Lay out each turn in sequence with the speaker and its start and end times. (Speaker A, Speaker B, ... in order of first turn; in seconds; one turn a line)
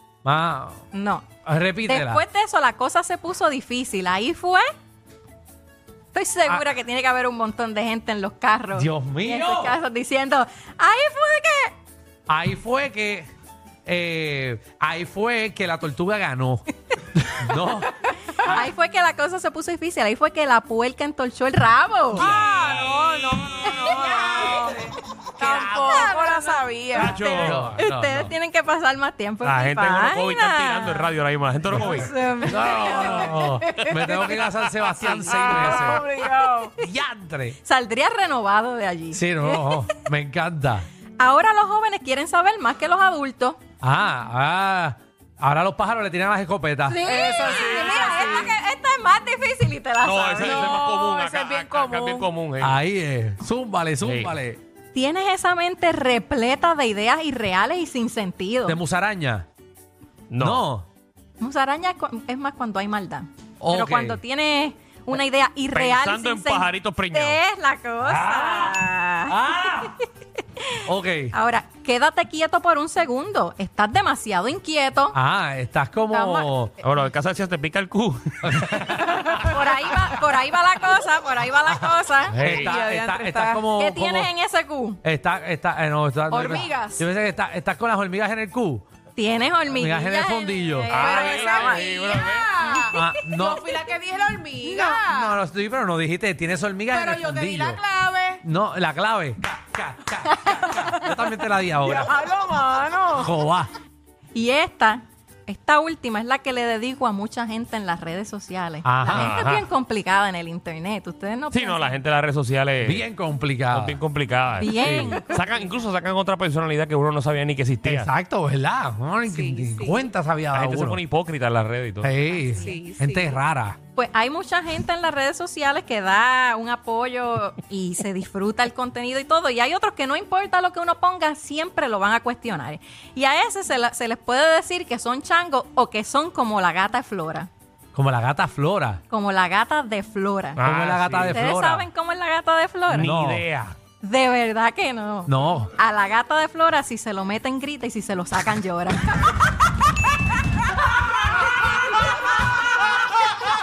Speaker A: 0.2-0.8
Speaker B: 0.9-1.3
Speaker A: 1.4-2.2
Speaker B: 1.9-4.7
Speaker B: 6.1-11.8
Speaker A: 8.7-9.8
Speaker A: 12.3-13.3
Speaker A: 13.9-17.9
Speaker B: 18.4-22.4
Speaker C: 22.2-27.2
Speaker B: 23.7-24.8
Speaker B: 25.4-31.1
Speaker D: 26.9-27.6
Speaker A: 27.4-28.3
Speaker D: 29.4-32.1
Speaker B: 31.7-33.5
Speaker A: 31.8-36.1
Speaker C: 33.1-34.2
Speaker D: 34.9-35.8
Speaker C: 35.0-36.7
Speaker A: 36.8-37.6
Speaker B: 37.6-40.0
Speaker A: 39.1-40.9
Speaker B: 41.2-43.6
Speaker A: 43.8-47.0
Speaker B: 46.9-50.8
Speaker C: 47.0-48.6
Speaker D: 50.0-52.8
Speaker C: 50.4-52.3
Speaker A: 52.6-54.6
Speaker D: 54.0-54.4
Speaker B: 54.9-58.8
Speaker A: 58.7-59.5
Speaker D: 60.3-60.6
Speaker A: 60.4-60.9
Speaker B: 61.4-69.9
Speaker A: 63.6-64.2
Speaker D: 65.7-67.4
Speaker A: 68.0-69.9
Speaker A: 70.9-71.4
Speaker B: 71.3-75.2
Speaker A: 75.1-76.7
Speaker C: 76.1-76.4
Speaker D: 76.8-78.8
Speaker A: 78.4-80.0
Speaker B: 79.3-82.4
Speaker A: 82.3-84.3
Speaker D: 82.4-82.8
Speaker C: 82.6-83.6
Speaker B: 83.8-85.0
Speaker A: 85.0-88.8
Speaker C: 86.3-87.0
Speaker B: 89.2-91.9
Speaker A: 89.7-91.0
Speaker D: 90.9-92.5
Speaker C: 91.0-95.4
Speaker B: 92.6-93.2
Speaker A: 92.9-93.7
Speaker A: 94.8-97.8
Speaker C: 96.9-98.4
Speaker A: 98.4-102.2
Speaker C: 101.8-103.3
Speaker A: 103.2-103.7
Speaker B: 104.3-112.0
Speaker A: 108.8-109.3
Speaker D: 109.1-109.7
Speaker D: 111.5-113.0
Speaker A: 112.8-114.0
Speaker D: 113.7-118.1
Speaker B: 114.6-115.4
Speaker A: 114.8-115.1
Speaker A: 117.8-121.0
Speaker C: 119.3-120.1
Speaker D: 120.5-122.2
Speaker A: 122.0-123.8
Speaker C: 122.5-123.4
Speaker B: 124.0-137.5
Speaker A: 137.9-139.0
Speaker B: 139.1-140.6
Speaker D: 140.6-141.4
Speaker A: 140.6-141.9
Speaker B: 141.3-143.1
Speaker D: 142.9-143.8
Speaker A: 143.0-143.4
Speaker B: 144.0-149.4
Speaker A: 145.3-145.7